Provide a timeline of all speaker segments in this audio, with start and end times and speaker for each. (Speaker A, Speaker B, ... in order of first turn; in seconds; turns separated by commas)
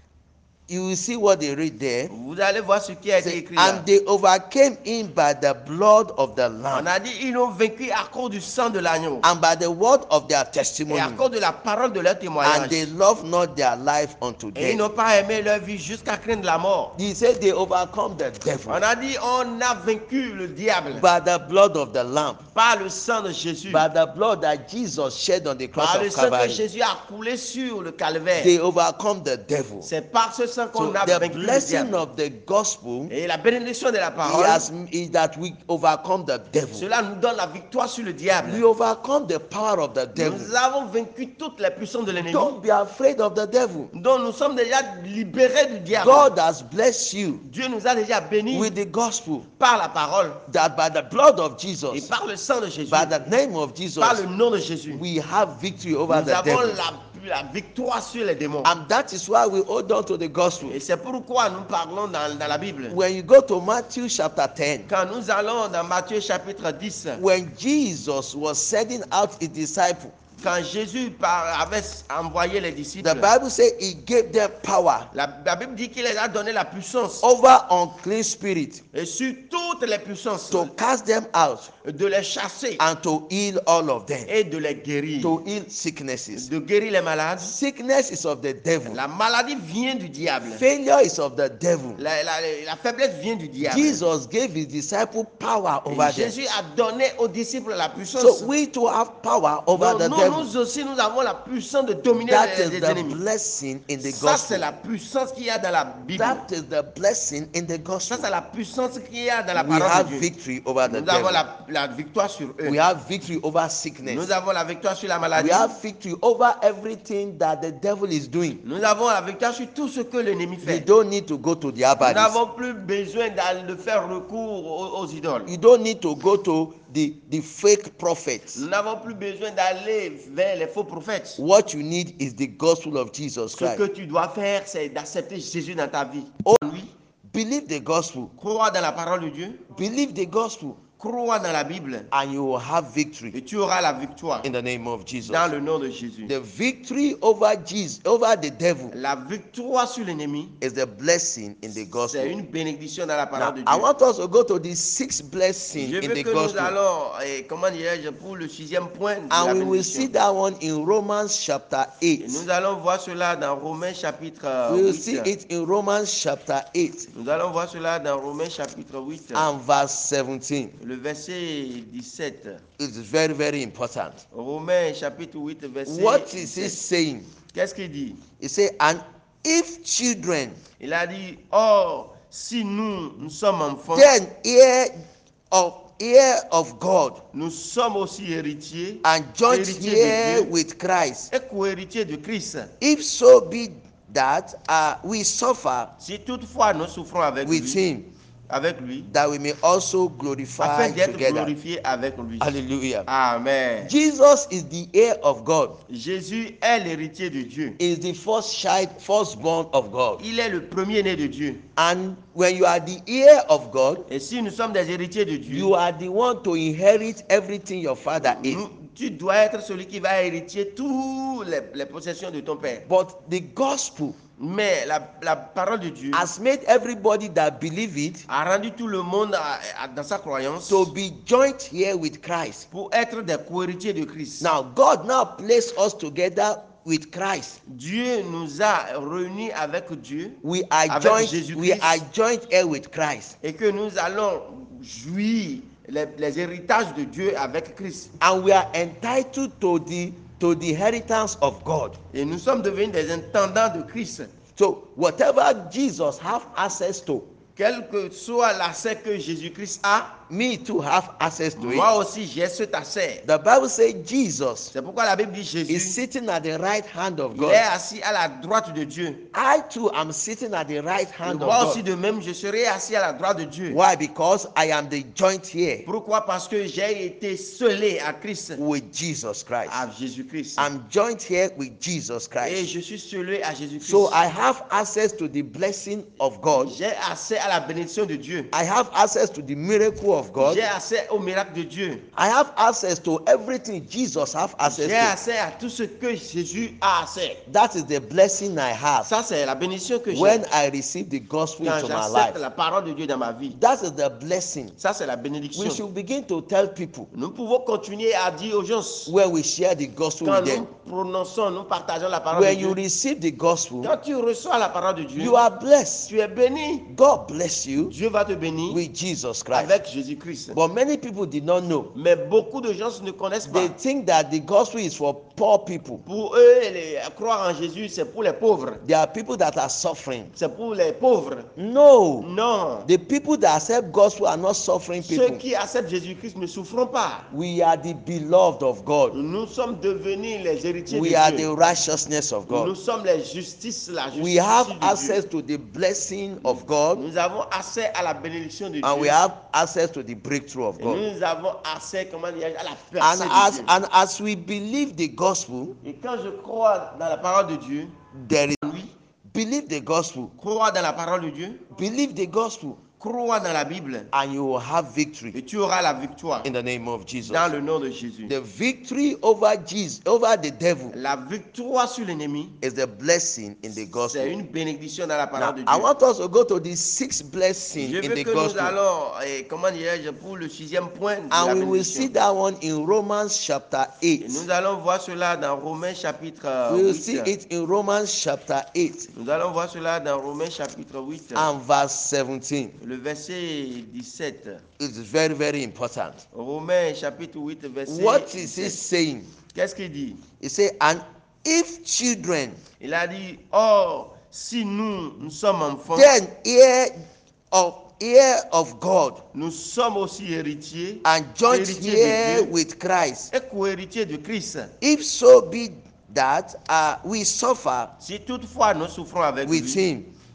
Speaker A: 0.7-2.1, Speaker B: 2.1-3.8, Speaker A: 3.2-6.9, Speaker B: 6.7-9.3, Speaker A: 9.2-11.2, Speaker B: 10.9-12.9, Speaker A: 12.4-14.8, Speaker B: 14.5-16.9, Speaker A: 16.9-18.8, Speaker B: 18.7-21.1, Speaker A: 20.9-22.4, Speaker B: 22.5-23.9, Speaker A: 23.7-26.6, Speaker B: 25.8-28.5, Speaker A: 28.4-29.9, Speaker B: 29.8-32.0, Speaker A: 30.7-33.1, Speaker B: 33.1-34.7, Speaker A: 34.2-36.9, Speaker B: 36.7-38.6, Speaker A: 38.4-40.5, Speaker B: 40.1-42.6, Speaker A: 42.2-43.9, Speaker B: 43.9-46.3, Speaker A: 45.9-47.4, Speaker B: 47.4-48.7, Speaker A: 48.5-49.5, Speaker B: 49.6-50.4, Speaker A: 50.5-52.1, Speaker B: 51.9-53.1, Speaker A: 52.9-54.2, Speaker B: 54.0-55.0, Speaker A: 54.9-56.8, Speaker B: 56.1-58.7, Speaker A: 58.6-60.8, Speaker B: 60.7-63.0, Speaker A: 62.9-64.9, Speaker B: 64.9-67.2, Speaker A: 67.2-70.2, Speaker B: 70.4-73.3, Speaker A: 73.0-75.1, Speaker B: 75.1-77.3, Speaker A: 77.2-78.8, Speaker B: 78.9-80.7, Speaker A: 80.5-81.7, Speaker B: 81.8-82.8, Speaker A: 82.8-84.3, Speaker B: 84.3-85.4, Speaker A: 85.2-86.5, Speaker B: 86.3-87.5, Speaker A: 87.4-89.0, Speaker B: 88.8-90.7, Speaker A: 90.4-92.0, Speaker B: 92.0-94.0, Speaker A: 93.6-96.3, Speaker B: 95.9-98.5, Speaker A: 98.1-100.5, Speaker B: 99.7-103.2, Speaker A: 102.1-104.6, Speaker B: 104.0-106.4, Speaker A: 106.1-108.3, Speaker B: 108.1-110.3, Speaker A: 109.5-111.4, Speaker B: 110.8-112.8, Speaker A: 112.6-114.3, Speaker B: 114.0-115.7, Speaker A: 115.3-118.6, Speaker B: 118.6-120.9, Speaker A: 120.6-122.4, Speaker B: 122.0-125.5, Speaker A: 125.5-128.6, Speaker B: 128.5-131.4, Speaker A: 131.4-133.8, Speaker B: 133.5-136.9, Speaker A: 137.2-138.3, Speaker B: 138.4-139.6, Speaker A: 139.7-140.8, Speaker B: 141.0-142.1, Speaker A: 142.1-143.3, Speaker B: 143.3-144.5, Speaker A: 144.4-145.5, Speaker B: 145.2-146.3, Speaker A: 146.2-148.9, Speaker B: 148.9-150.6, Speaker A: 150.6-152.3, Speaker B: 151.9-153.9, Speaker A: 153.3-156.8, Speaker B: 155.7-160.1, Speaker A: 159.3-162.4, Speaker B: 162.2-165.3, Speaker A: 164.7-167.1, Speaker B: 167.1-169.5, Speaker A: 169.3-170.8, Speaker B: 170.8-172.6, Speaker A: 172.8-174.2, Speaker B: 174.3-176.8, Speaker A: 175.8-177.3, Speaker B: 177.5-178.2, Speaker A: 178.4-180.6, Speaker B: 180.8-184.1, Speaker A: 183.9-187.2, Speaker B: 187.3-190.5, Speaker A: 189.0-191.3, Speaker B: 191.3-192.7, Speaker A: 192.8-195.9, Speaker B: 196.0-197.8, Speaker A: 197.4-198.1, Speaker B: 198.5-199.1, Speaker A: 199.1-201.5, Speaker B: 200.6-202.5, Speaker A: 202.4-203.1, Speaker B: 203.1-203.9, Speaker A: 203.8-205.8, Speaker B: 205.9-207.8, Speaker A: 207.8-210.2, Speaker B: 210.2-211.6, Speaker A: 211.8-214.0, Speaker B: 214.1-215.7, Speaker A: 215.5-218.6, Speaker B: 218.2-222.8, Speaker A: 222.8-224.2, Speaker B: 224.4-226.2, Speaker A: 226.1-228.3, Speaker B: 228.3-230.9, Speaker A: 230.7-232.7, Speaker B: 232.7-234.5, Speaker A: 234.4-237.6, Speaker B: 237.7-242.0, Speaker A: 240.4-243.3, Speaker B: 243.4-248.1, Speaker A: 248.2-252.0, Speaker B: 252.1-254.3, Speaker A: 254.6-257.3, Speaker B: 257.6-260.2, Speaker A: 260.3-261.9, Speaker B: 261.6-263.2, Speaker A: 263.2-264.7, Speaker B: 264.7-266.0, Speaker A: 265.7-267.6, Speaker B: 267.3-269.2, Speaker A: 269.3-271.8, Speaker B: 271.2-273.8, Speaker A: 273.7-275.9, Speaker B: 275.9-278.6, Speaker A: 278.6-279.9, Speaker B: 279.6-280.7, Speaker A: 280.6-282.7, Speaker B: 282.4-284.2, Speaker A: 283.8-286.8, Speaker B: 286.5-288.5, Speaker A: 288.5-290.6, Speaker B: 290.4-292.1, Speaker A: 292.1-295.1, Speaker B: 294.6-297.4, Speaker A: 297.5-299.1, Speaker B: 299.0-300.5, Speaker A: 300.1-302.4, Speaker B: 301.6-303.6, Speaker A: 303.5-304.8, Speaker B: 304.8-305.8, Speaker A: 305.5-307.1, Speaker B: 307.1-309.1, Speaker A: 309.1-310.6, Speaker B: 310.2-312.8, Speaker A: 312.3-313.9, Speaker B: 313.8-315.4, Speaker A: 315.1-316.1, Speaker B: 316.1-316.9, Speaker A: 316.9-317.9, Speaker B: 317.8-318.8, Speaker A: 318.7-319.7, Speaker B: 319.5-320.6, Speaker A: 320.5-321.9, Speaker B: 321.9-323.7, Speaker A: 323.4-326.0, Speaker B: 326.0-328.8, Speaker A: 328.8-330.3, Speaker B: 330.4-331.5, Speaker A: 331.6-332.3, Speaker B: 332.2-332.9, Speaker A: 332.8-335.4, Speaker B: 335.0-337.3, Speaker A: 337.3-339.1, Speaker B: 339.1-341.5, Speaker A: 340.9-342.7, Speaker B: 342.5-345.2, Speaker A: 344.1-347.0, Speaker B: 346.4-349.2, Speaker A: 348.8-351.0, Speaker B: 350.8-353.7, Speaker A: 353.0-355.8, Speaker B: 355.8-357.9, Speaker A: 358.1-360.3, Speaker B: 358.6-358.9, Speaker B: 360.4-361.6, Speaker A: 361.7-362.8, Speaker B: 363.0-364.1, Speaker A: 364.1-365.3, Speaker B: 365.3-366.5, Speaker A: 366.4-367.5, Speaker B: 367.2-368.3, Speaker A: 368.2-370.9, Speaker B: 370.9-372.6, Speaker A: 372.6-374.3, Speaker B: 374.0-375.9, Speaker A: 375.4-378.8, Speaker B: 377.8-382.1, Speaker A: 381.3-384.4, Speaker B: 384.2-387.3, Speaker A: 386.7-389.1, Speaker B: 389.1-391.5, Speaker A: 391.3-392.8, Speaker B: 392.8-394.6, Speaker A: 394.8-396.2, Speaker B: 396.3-398.8, Speaker A: 397.9-399.3, Speaker B: 399.5-400.2, Speaker A: 400.4-402.6, Speaker B: 402.8-406.1, Speaker A: 405.9-407.0, Speaker A: 407.5-409.2, Speaker B: 409.3-412.5, Speaker A: 411.0-413.3, Speaker B: 413.3-414.7, Speaker A: 414.8-417.9, Speaker B: 418.0-419.8, Speaker A: 419.4-420.1